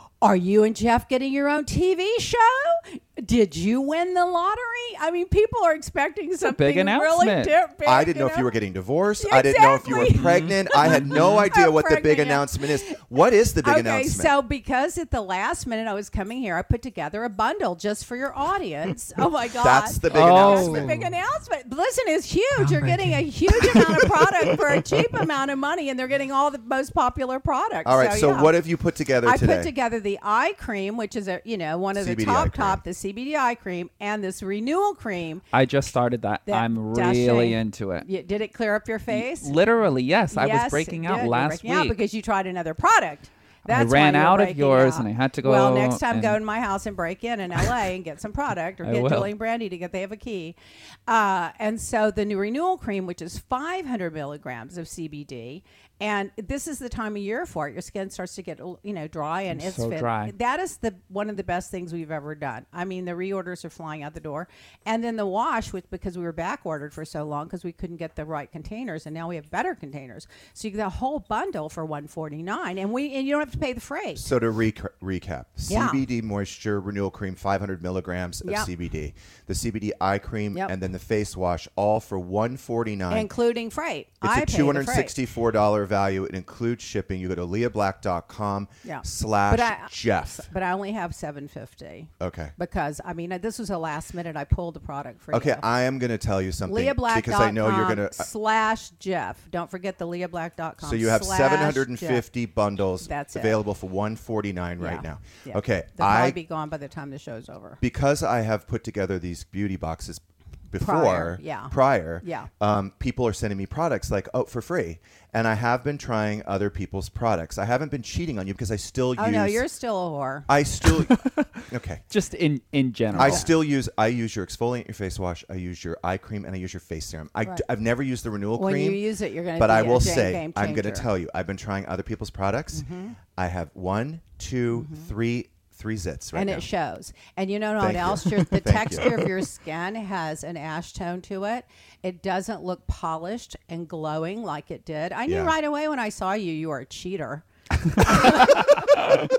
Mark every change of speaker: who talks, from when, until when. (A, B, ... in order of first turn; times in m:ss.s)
0:00.2-0:08.5 A
0:06.4-0:07.5 B
0:07.8-0:14.4 C
0:09.2-0:12.9 A
0:10.1-0:11.5 B
0:13.6-0:28.6 A
0:19.6-0:21.0 C
0:20.1-0:21.1 B
0:22.7-0:23.0 B
0:27.8-0:29.7 C
0:29.2-0:35.4 A
0:31.9-0:32.8 C
0:35.5-0:38.1 B
0:36.5-0:39.6 A
0:39.1-0:42.0 B
0:40.3-0:50.6 A
0:43.7-0:46.4 B
0:48.8-0:49.3 B
0:51.1-1:14.3 A
0:59.5-1:00.3 B
1:14.2-1:23.3 C
1:15.7-1:16.0 A
1:18.4-1:18.7 A
1:23.1-1:25.1 A
1:24.2-1:30.4 C
1:28.8-1:35.6 A
1:32.2-1:32.5 C
1:35.3-1:38.3 C
1:36.6-1:42.2 A
1:40.8-1:46.4 C
1:43.0-1:43.6 A
1:44.8-1:47.8 A
1:47.8-1:59.6 C
1:50.8-1:52.5 A
1:59.2-2:00.5 A
2:00.5-2:02.0 C
2:01.0-2:03.5 B
2:03.1-2:16.7 C
2:03.1-2:03.5 A
2:08.5-2:11.1 A
2:12.7-2:13.2 A
2:14.7-2:15.1 A
2:16.3-2:27.4 A
2:17.8-2:19.3 C
2:25.3-2:25.5 C
2:28.0-2:29.0 A